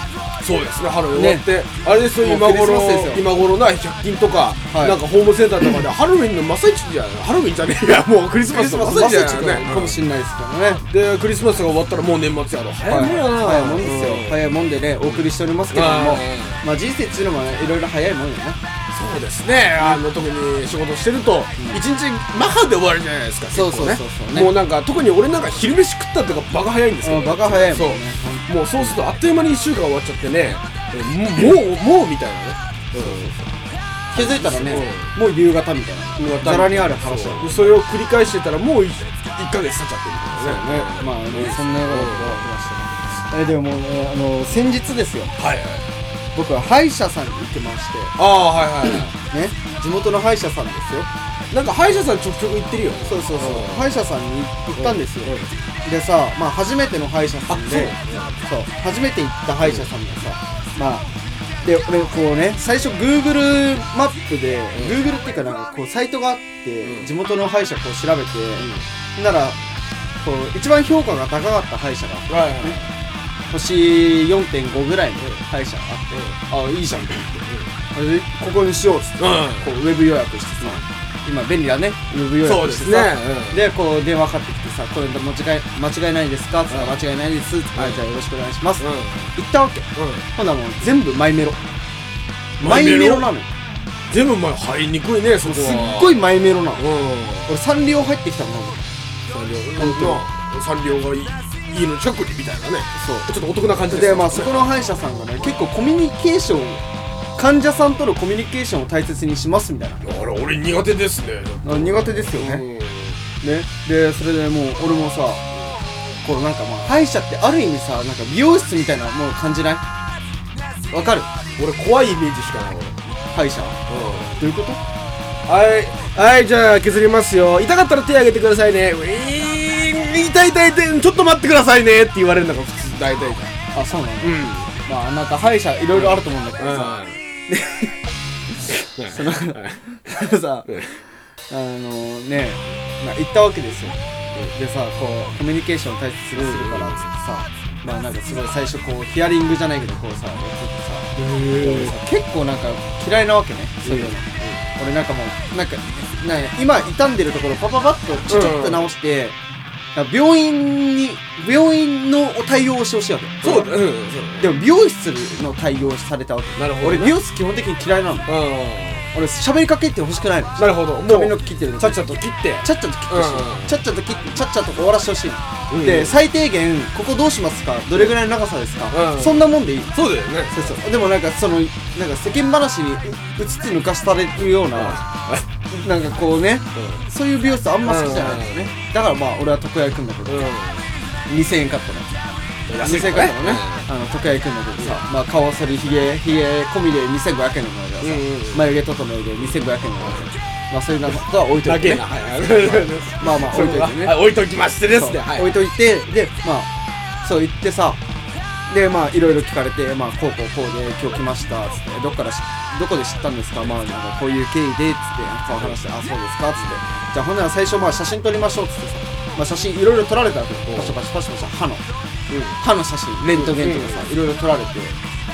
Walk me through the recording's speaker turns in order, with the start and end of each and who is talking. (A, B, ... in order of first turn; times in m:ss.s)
0:00.4-0:10.0 A
0:01.1-0:01.4 B
0:02.2-0:03.2 B
0:04.7-0:05.0 B
0:08.4-0:10.8 B
0:10.9-0:16.6 A
0:12.9-0:18.6 B
0:18.9-0:33.5 A
0:21.6-0:21.8 B
0:23.5-0:24.5 B
0:27.0-0:29.0 B
0:33.0-0:33.3 B
0:34.1-0:37.8 B
0:34.1-0:35.1 A
0:36.2-0:42.5 A
0:40.4-0:45.3 B
0:45.4-0:45.9 A
0:46.3-0:48.2 B
0:48.2-0:49.1 A
0:48.8-0:51.1 B
0:51.5-0:54.0 A
0:53.0-1:01.0 B
0:54.8-0:55.5 A
0:57.5-0:58.4 A
0:59.6-0:59.9 A
1:01.6-1:09.6 B
1:06.8-1:07.1 A
1:08.6-1:08.8 A
1:10.2-1:12.8 B
1:12.3-1:12.9 A
1:13.5-1:31.6 B
1:16.1-1:16.4 A
1:17.4-1:17.7 A
1:19.2-1:19.7 A
1:22.4-1:23.7 A
1:26.7-1:27.0 A
1:27.8-1:28.0 A
1:28.8-1:29.4 A
1:30.0-1:30.3 A
1:32.6-1:33.5 B
1:32.6-1:33.3 A
1:34.1-1:36.2 A
1:35.4-1:36.9 B
1:36.8-1:37.5 A
1:37.5-1:38.9 B
1:39.3-1:44.8 A
1:39.8-1:40.2 B
1:43.0-1:43.3 B
1:43.9-1:46.8 B
1:47.4-1:50.0 B
1:50.0-1:53.3 A
1:51.6-1:52.6 B
1:53.4-1:55.4 B
1:56.2-1:59.8 B
2:00.9-2:01.3 B
2:01.6-2:03.0 A
2:03.3-2:03.8 B
2:03.9-2:04.4 A
2:04.4-2:04.8 B
2:05.5-2:13.5 A
2:13.7-2:18.0 B
2:14.2-2:14.8 A
2:15.9-2:17.2 A
2:18.9-2:19.8 A
2:19.1-2:20.7 B
2:20.7-2:21.0 A
2:21.5-2:24.0 B
2:24.5-2:39.4 B
2:26.4-2:27.1 A
2:31.2-2:32.0 A
2:33.8-2:34.6 A
2:38.3-2:38.9 A
2:40.0-2:43.7 B
2:43.4-2:44.5 A
2:44.4-2:48.4 B
2:46.6-2:47.2 A
2:48.3-2:49.1 A
2:49.1-3:00.0 B
2:50.6-2:53.8 A
2:55.7-2:56.2 A
2:58.9-3:00.8 A
3:00.5-3:05.0 B
3:04.7-3:05.5 A
3:05.7-3:10.5 B
3:06.7-3:07.1 A
3:07.8-3:08.7 A
3:10.3-3:10.9 A
3:11.3-3:12.1 B
3:12.7-3:13.9 A
3:12.8-3:24.2 B
3:14.8-3:15.0 A
3:18.0-3:18.7 A
3:20.0-3:20.3 A
3:21.1-3:25.6 A
3:24.9-3:26.7 B
3:27.2-3:28.0 B
3:28.7-3:41.8 B
3:40.7-3:41.0 A
3:42.3-3:42.6 A
3:42.6-3:45.0 B
3:43.3-3:44.1 A